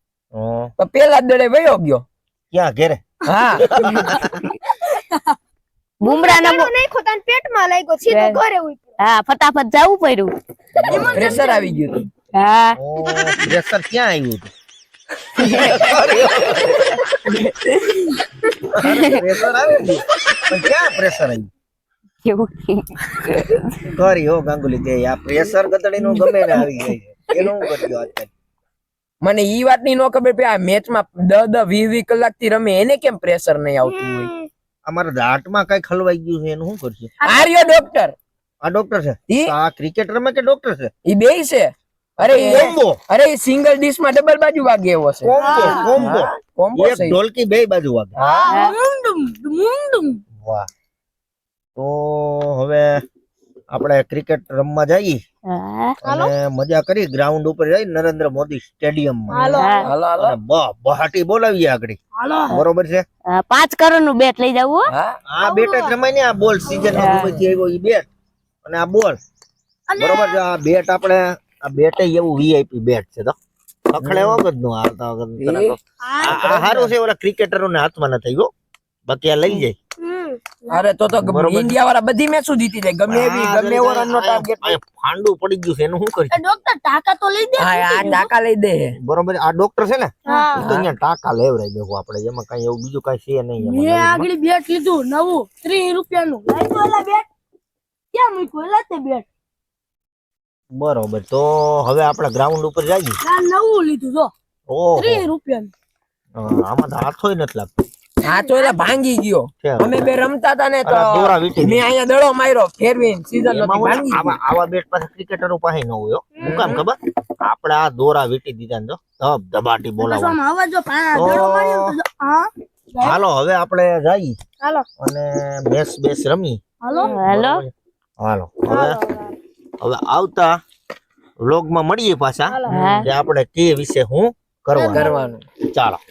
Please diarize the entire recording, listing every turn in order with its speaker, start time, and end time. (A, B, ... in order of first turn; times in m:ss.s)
0:00.3-0:00.7 A
0:00.8-0:02.0 B
0:02.5-0:03.0 A
0:03.3-0:03.7 B
0:03.6-0:04.3 A
0:03.9-0:04.2 C
0:04.8-0:05.4 D
0:06.0-0:06.7 C
0:06.0-0:09.0 E
0:08.1-0:08.4 C
0:09.0-0:10.3 C
0:10.8-0:11.4 A
0:10.8-0:11.9 D
0:11.0-0:12.1 B
0:12.3-0:12.8 C
0:12.8-0:14.5 A
0:15.4-0:15.8 C
0:15.4-0:16.9 A
0:18.7-0:21.5 A
0:18.9-0:19.2 C
0:22.2-0:23.8 C
0:23.8-0:28.3 A
0:29.2-0:34.3 B
0:33.8-0:34.5 E
0:34.8-0:37.1 A
0:37.2-0:37.8 D
0:37.2-0:38.1 B
0:38.6-0:40.9 A
0:41.0-0:47.2 B
0:42.2-0:43.0 A
0:42.4-0:42.7 D
0:45.2-0:48.1 A
0:45.4-0:46.0 D
0:48.2-0:50.2 D
0:48.5-0:48.8 C
0:50.4-0:50.7 A
0:51.8-0:53.0 A
0:53.7-0:55.2 A
0:55.5-0:55.9 C
0:56.0-0:59.6 A
0:59.3-0:59.9 D
0:59.5-0:59.9 C
0:59.8-1:00.4 B
1:00.2-1:03.0 A
1:02.2-1:02.6 D
1:03.3-1:04.9 C
1:04.9-1:05.2 B
1:05.3-1:08.0 A
1:05.4-1:05.9 E
1:06.9-1:07.3 C
1:08.6-1:09.2 A
1:09.9-1:10.4 D
1:10.0-1:13.4 A
1:13.9-1:18.5 A
1:14.0-1:14.4 B
1:15.4-1:15.7 B
1:16.0-1:16.9 D
1:19.1-1:19.7 A
1:20.0-1:20.4 E
1:20.7-1:24.8 B
1:21.1-1:21.8 A
1:23.1-1:26.4 A
1:26.3-1:28.3 D
1:27.6-1:28.9 B
1:29.0-1:34.3 A
1:30.3-1:30.6 E
1:30.6-1:30.9 B
1:33.6-1:37.2 D
1:38.1-1:39.2 D
1:40.7-1:43.2 A
1:43.2-1:44.3 D
1:44.7-1:45.3 A
1:45.0-1:45.7 D
1:46.4-1:47.7 A
1:48.2-1:54.4 B
1:48.3-1:48.8 E
1:49.6-1:50.1 A
1:50.8-1:51.9 A
1:53.5-2:00.4 A
1:56.4-1:56.7 E
1:56.4-1:56.8 B
2:00.0-2:03.2 D
2:01.1-2:02.0 A
2:03.0-2:04.4 A
2:05.0-2:06.6 A
2:06.8-2:07.2 D
2:07.0-2:07.6 C
2:07.3-2:09.0 A
2:08.7-2:09.4 E
2:09.8-2:10.5 A
2:11.4-2:15.1 A
2:12.5-2:12.7 E
2:12.7-2:13.1 C
2:12.7-2:13.0 B
2:14.8-2:15.1 D
2:14.9-2:15.4 B
2:14.9-2:15.2 E
2:15.7-2:16.0 A